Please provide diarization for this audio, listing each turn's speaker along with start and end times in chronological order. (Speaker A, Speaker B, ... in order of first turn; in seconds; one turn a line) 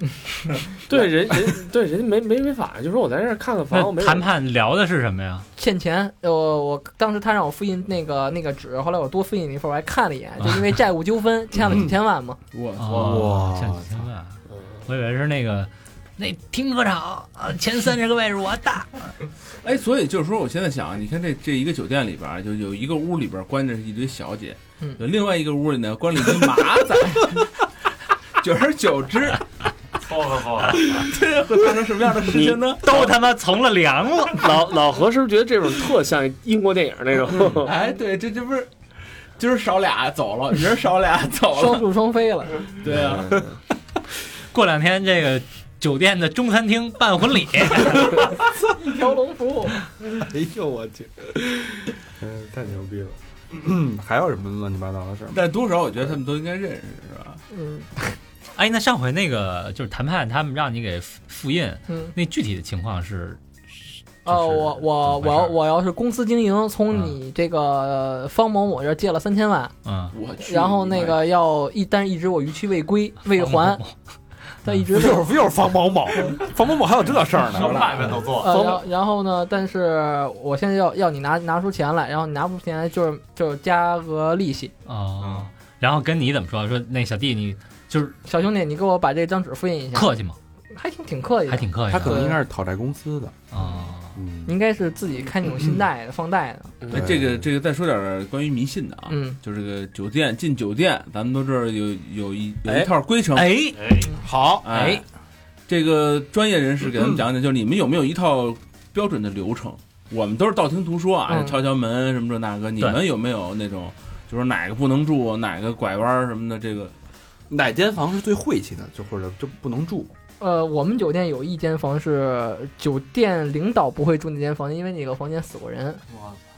Speaker A: 0.9-4.3
Speaker B: 3.7-5.5
Speaker C: 5.6-12.4
Speaker B: 10.4-10.7
Speaker D: 11.6-11.9
Speaker E: 12.5-13.4
Speaker B: 12.8-19.0
Speaker D: 12.9-14.1
Speaker A: 14.5-14.8
Speaker E: 19.6-27.7
Speaker E: 28.4-29.4
Speaker F: 30.0-30.9
Speaker E: 30.8-33.2
Speaker A: 32.2-32.6
Speaker B: 32.8-34.9
Speaker A: 34.3-37.7
Speaker E: 37.5-38.7
Speaker E: 39.4-41.9
Speaker C: 41.5-42.8
Speaker E: 42.8-43.4
Speaker A: 42.9-43.5
Speaker B: 44.4-48.5
Speaker C: 48.7-49.8
Speaker D: 50.2-55.4
Speaker E: 55.3-57.4
Speaker C: 57.5-57.9
Speaker B: 58.5-63.4
Speaker B: 64.2-65.6
Speaker C: 64.2-69.7
Speaker B: 69.8-70.1
Speaker E: 70.1-71.2
Speaker C: 70.4-73.8
Speaker B: 73.4-73.9
Speaker C: 74.6-75.3
Speaker D: 74.9-78.0
Speaker F: 77.4-78.8
Speaker E: 77.7-78.1
Speaker C: 78.4-84.7
Speaker B: 84.9-88.2
Speaker F: 85.2-85.5
Speaker C: 88.2-90.1
Speaker B: 89.9-90.4
Speaker C: 90.7-92.4
Speaker B: 91.5-92.2
Speaker D: 91.9-93.4
Speaker B: 93.5-94.2
Speaker C: 93.6-93.9
Speaker D: 94.2-94.5
Speaker C: 94.5-96.8
Speaker A: 96.8-97.2
Speaker E: 96.9-103.6
Speaker D: 96.9-97.5
Speaker C: 99.1-99.4
Speaker A: 102.7-102.9
Speaker B: 103.3-103.9
Speaker F: 103.7-104.2
Speaker D: 104.2-104.8
Speaker E: 104.6-105.0
Speaker B: 104.7-105.0
Speaker E: 105.7-117.0
Speaker C: 111.3-111.6
Speaker D: 117.5-120.1
Speaker C: 120.4-126.0
Speaker F: 126.1-126.4